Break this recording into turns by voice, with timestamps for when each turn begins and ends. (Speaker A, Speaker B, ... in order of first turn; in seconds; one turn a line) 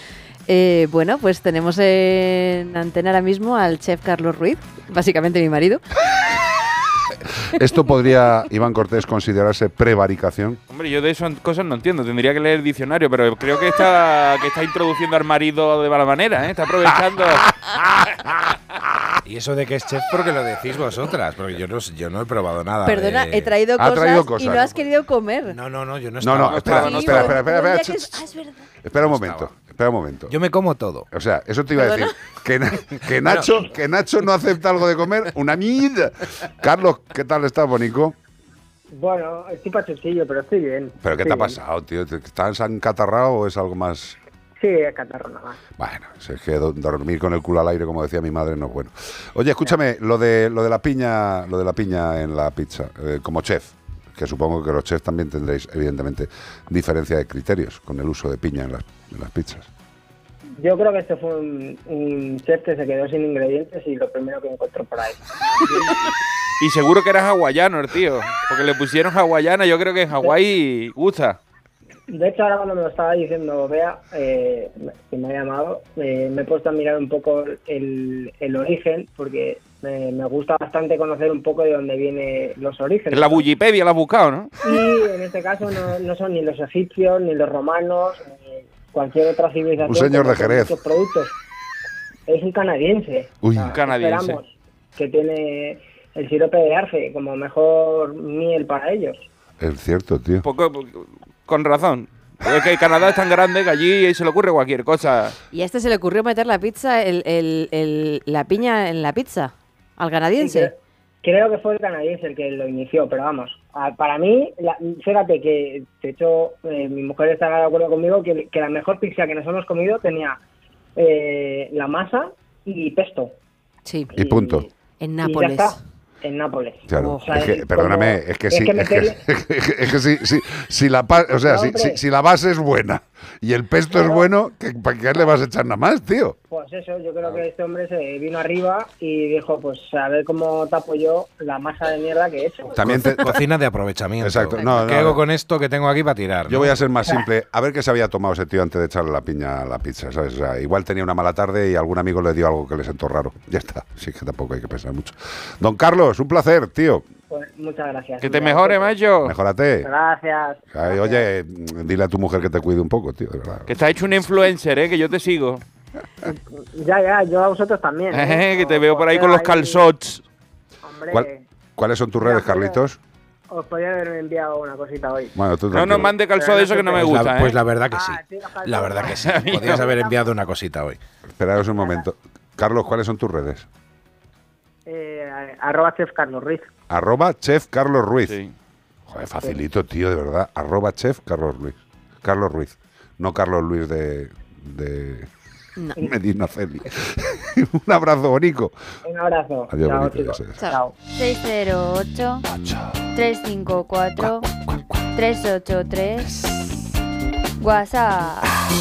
Speaker A: 0.5-5.8
Speaker B: 7.5-10.6
Speaker C: 10.7-17.5
Speaker B: 17.1-19.1
Speaker D: 19.3-23.5
Speaker A: 22.8-25.6
Speaker B: 23.8-24.7
Speaker D: 25.5-27.3
Speaker B: 26.2-28.2
Speaker C: 26.4-27.3
Speaker A: 26.8-28.6
Speaker B: 28.8-30.4
Speaker D: 28.9-29.5
Speaker D: 30.3-31.1
Speaker B: 31.1-38.1
Speaker A: 31.8-32.1
Speaker D: 33.2-33.6
Speaker E: 38.9-41.6
Speaker B: 41.0-44.2
Speaker E: 44.6-45.6
Speaker B: 45.8-59.7
Speaker E: 60.6-65.8
Speaker C: 66.6-71.4
Speaker E: 72.1-83.4
Speaker C: 83.1-84.5
Speaker E: 84.6-91.3
Speaker B: 89.8-90.7
Speaker E: 92.3-99.2
Speaker B: 93.4-93.7
Speaker C: 93.7-94.4
Speaker B: 99.6-100.4
Speaker C: 100.4-105.3
Speaker A: 105.5-110.7
Speaker E: 110.4-120.4
Speaker E: 121.0-123.3
Speaker A: 123.8-124.1
Speaker B: 124.2-124.7
Speaker E: 124.2-124.7
Speaker A: 125.0-125.8
Speaker E: 125.2-129.2
Speaker B: 126.9-136.4
Speaker A: 127.0-127.3
Speaker E: 131.3-132.0
Speaker E: 133.9-134.3
Speaker E: 136.5-142.8
Speaker B: 142.7-143.4
Speaker D: 142.8-146.8
Speaker B: 144.2-145.2
Speaker B: 146.5-157.1
Speaker E: 157.3-158.9
Speaker C: 158.2-159.3
Speaker B: 159.2-159.9
Speaker E: 159.8-161.2
Speaker B: 160.7-163.7
Speaker C: 163.7-165.6
Speaker E: 166.2-169.8
Speaker C: 168.1-170.2
Speaker E: 170.8-171.4
Speaker B: 171.1-173.0
Speaker E: 172.2-172.8
Speaker E: 173.5-175.3
Speaker B: 175.3-176.2
Speaker C: 175.7-177.6
Speaker E: 176.3-177.2
Speaker D: 176.9-181.0
Speaker E: 177.9-180.1
Speaker C: 179.2-179.8
Speaker B: 181.3-183.7
Speaker E: 184.9-186.7
Speaker B: 186.9-188.3
Speaker C: 188.2-188.5
Speaker B: 189.1-195.3
Speaker B: 196.0-198.7
Speaker E: 199.1-200.9
Speaker B: 199.7-200.6
Speaker F: 201.1-202.4
Speaker B: 202.5-202.9
Speaker F: 203.1-204.4
Speaker F: 205.1-206.4
Speaker F: 207.6-208.5